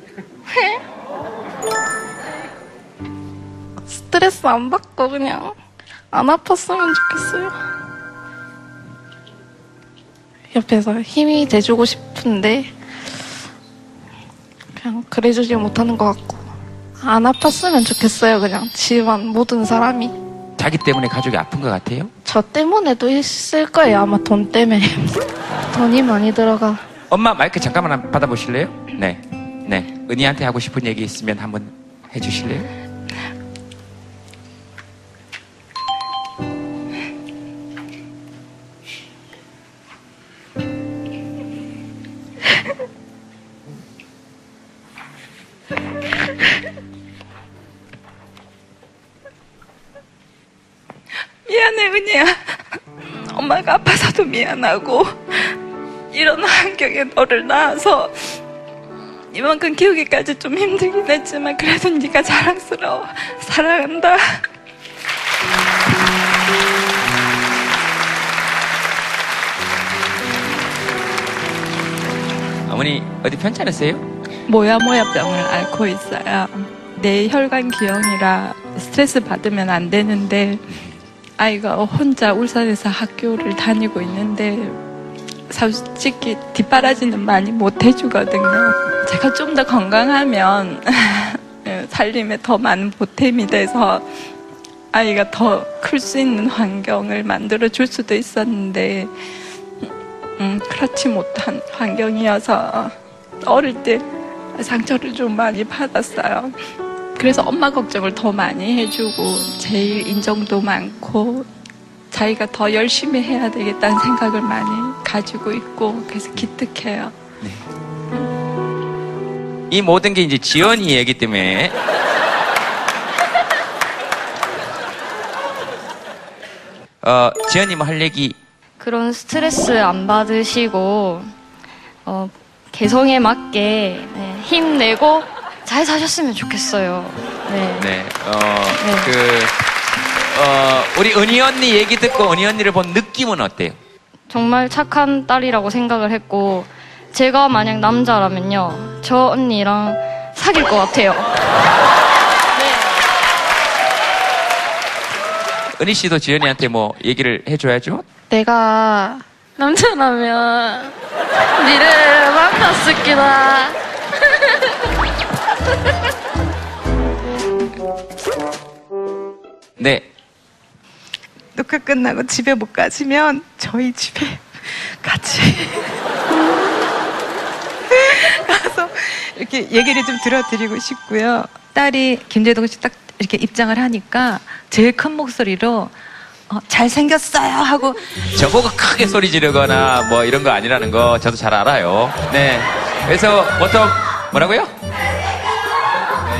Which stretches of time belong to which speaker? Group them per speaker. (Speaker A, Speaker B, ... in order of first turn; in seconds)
Speaker A: 3.9-5.5, 6.1-7.5, 10.5-12.7, 14.8-16.4, 17.0-20.1, 22.2-25.2, 25.7-26.8, 158.3-160.9, 161.6-163.7
Speaker B: 20.6-22.1, 25.5-25.9, 27.1-32.7, 72.7-74.0, 80.7-81.0, 119.7-121.8, 127.0-128.4, 137.8-139.6, 140.3-143.8, 155.8-158.0, 169.8-170.1, 188.3-194.7
Speaker C: 51.5-52.5, 53.2-55.5, 56.1-58.4, 59.3-64.2, 74.5-80.6, 81.4-84.8, 85.5-94.0, 94.9-99.1, 100.4-106.5, 107.2-111.5, 112.1-117.1
Speaker D: 128.8-131.3, 132.1-137.9, 138.8-139.1, 144.3-151.3, 152.6-152.9
Speaker E: 171.5-175.9, 177.9-185.9, 186.5-188.1